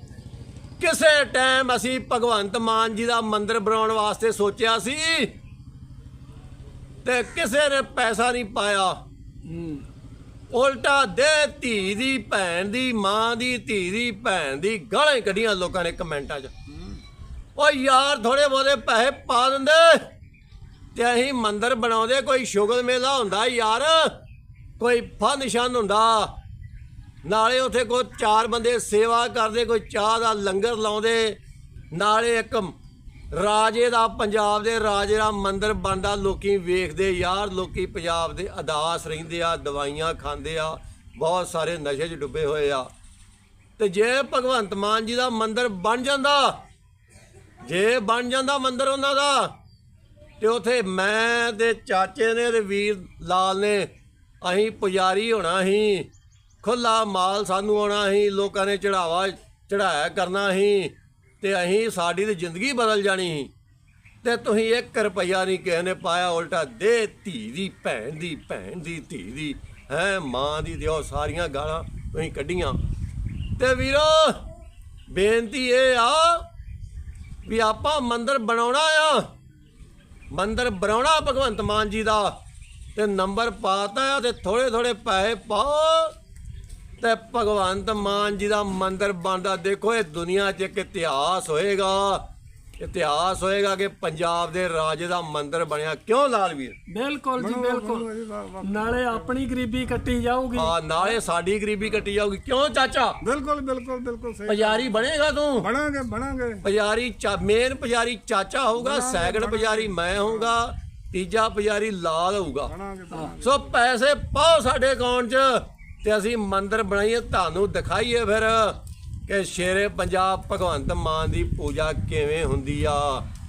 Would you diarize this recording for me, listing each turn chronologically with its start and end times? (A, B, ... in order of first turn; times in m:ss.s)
0:00.8-0:05.3 A
0:07.0-0:09.0 A
0:09.4-0:09.8 B
0:10.5-0:16.5 A
0:17.6-0:20.1 A
0:20.9-0:24.2 A
0:24.8-0:26.3 A
0:27.2-0:31.4 A
0:31.9-0:32.7 A
0:33.3-0:42.9 A
0:43.8-0:46.6 A
0:47.6-0:49.5 A
0:50.4-0:53.9 A
0:54.4-0:56.1 A
0:56.6-1:03.5 A
1:04.2-1:12.8 A
1:13.6-1:14.4 A
1:15.1-1:16.4 A
1:17.4-1:19.3 A
1:20.3-1:22.4 A
1:22.9-1:26.1 A
1:27.0-1:32.2 A
1:32.8-1:36.8 A
1:36.9-1:38.1 B
1:37.4-1:39.3 C
1:38.6-1:40.7 B
1:40.5-1:43.2 A
1:43.2-1:44.9 C
1:44.4-1:45.7 A
1:45.6-1:46.6 C
1:46.6-1:52.7 A
1:48.8-1:50.5 C
1:52.7-1:53.7 C
1:53.4-2:03.2 A